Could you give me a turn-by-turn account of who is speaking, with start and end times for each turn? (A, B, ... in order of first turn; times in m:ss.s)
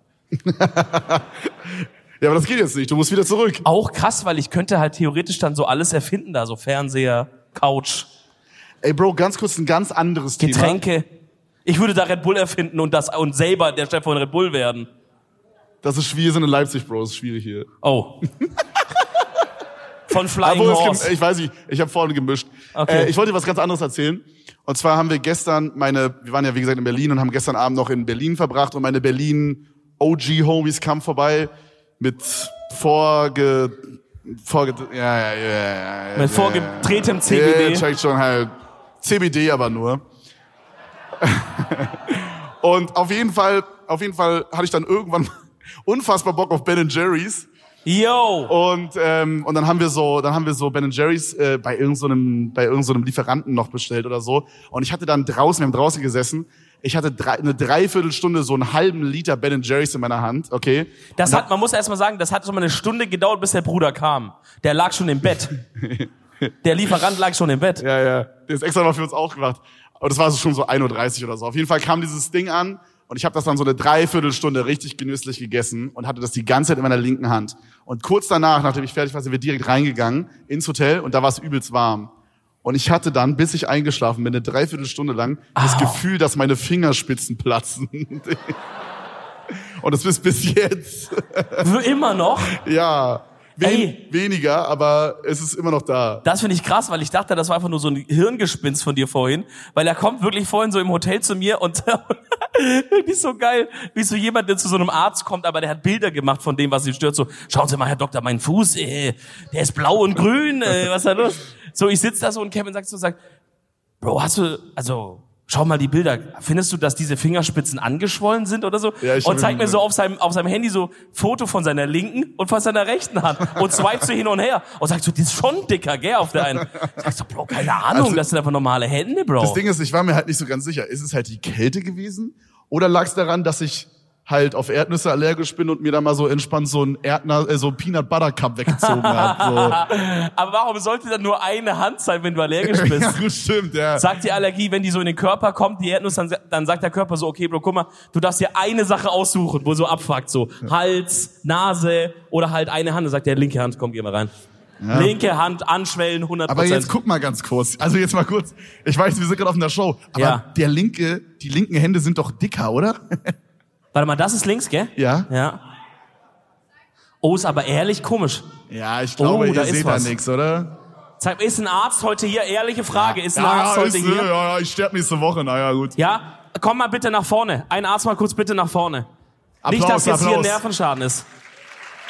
0:00.3-0:03.6 A
0:03.6-0:08.1 B
0:08.8-0:10.8 A
0:10.4-0:11.1 B
0:11.6-0:14.9 B
0:15.8-0:17.7 A
0:17.8-0:18.2 B
0:18.4-0:19.2 A
0:20.1-0:21.1 B
0:20.4-0:40.0 A
0:22.7-0:23.1 B
0:36.1-0:37.9 B
0:41.2-0:45.3 A
0:45.8-0:47.5 A
0:47.9-0:48.5 B
0:48.5-1:01.5 A
1:01.2-1:05.6 B
1:05.6-1:06.5 A
1:06.6-1:07.8 B
1:07.8-1:22.1 A
1:22.6-1:28.6 A
1:25.6-1:26.0 B
1:29.8-1:31.7 A
1:31.6-1:32.6 B
1:32.5-1:36.2 A
1:33.6-1:34.0 B
1:36.2-1:53.2 B
1:54.0-2:09.6 B
1:59.0-1:59.8 A
2:06.6-2:07.1 A
2:07.7-2:08.2 A
2:09.4-2:19.8 A
2:18.7-2:23.2 B
2:22.6-2:24.1 A
2:24.0-2:34.3 B
2:34.8-2:35.1 A
2:34.9-2:36.9 B
2:36.5-2:43.3 A
2:40.2-2:40.4 B
2:43.9-2:45.6 B
2:45.0-2:45.3 A
2:47.2-2:48.5 B
2:48.7-2:50.7 A
2:49.2-2:50.1 B
2:51.2-2:54.3 B
2:52.9-2:56.0 A
2:56.0-2:59.1 B
2:59.6-3:00.6 A
2:59.6-3:01.3 B